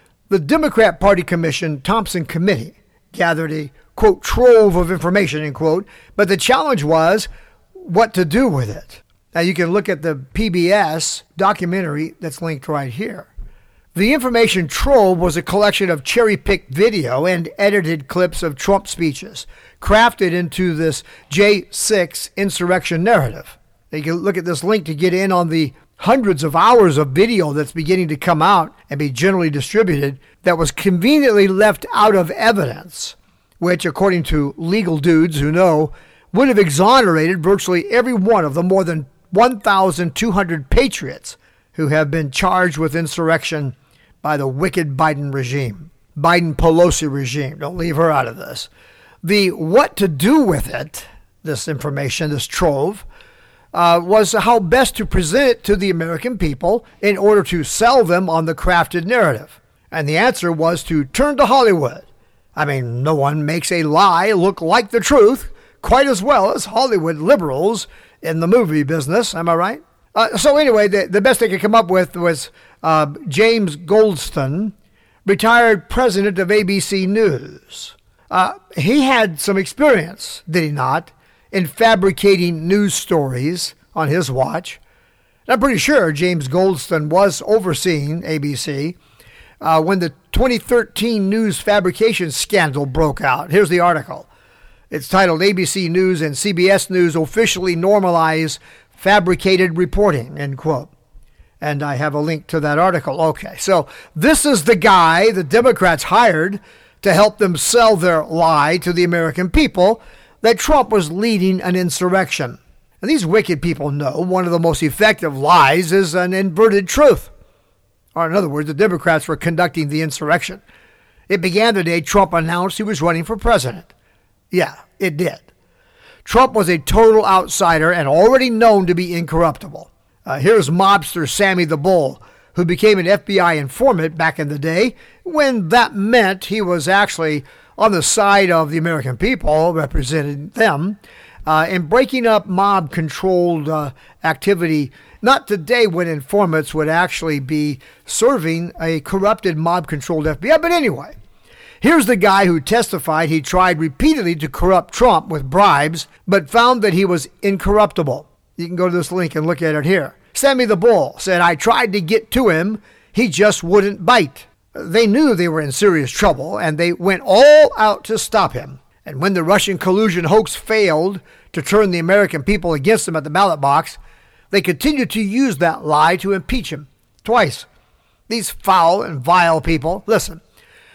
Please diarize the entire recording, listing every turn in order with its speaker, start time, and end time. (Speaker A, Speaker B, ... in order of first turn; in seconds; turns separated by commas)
Speaker A: 0.3-13.3, Speaker A: 13.9-48.7, Speaker A: 49.2-53.1, Speaker A: 53.7-74.7, Speaker A: 75.2-84.8, Speaker A: 85.5-89.0, Speaker A: 89.6-94.3, Speaker A: 94.9-100.9, Speaker A: 101.6-117.3, Speaker A: 118.2-120.6, Speaker A: 121.3-123.9, Speaker A: 124.5-125.5, Speaker A: 126.2-151.2, Speaker A: 151.8-174.0, Speaker A: 174.5-177.7, Speaker A: 178.3-180.4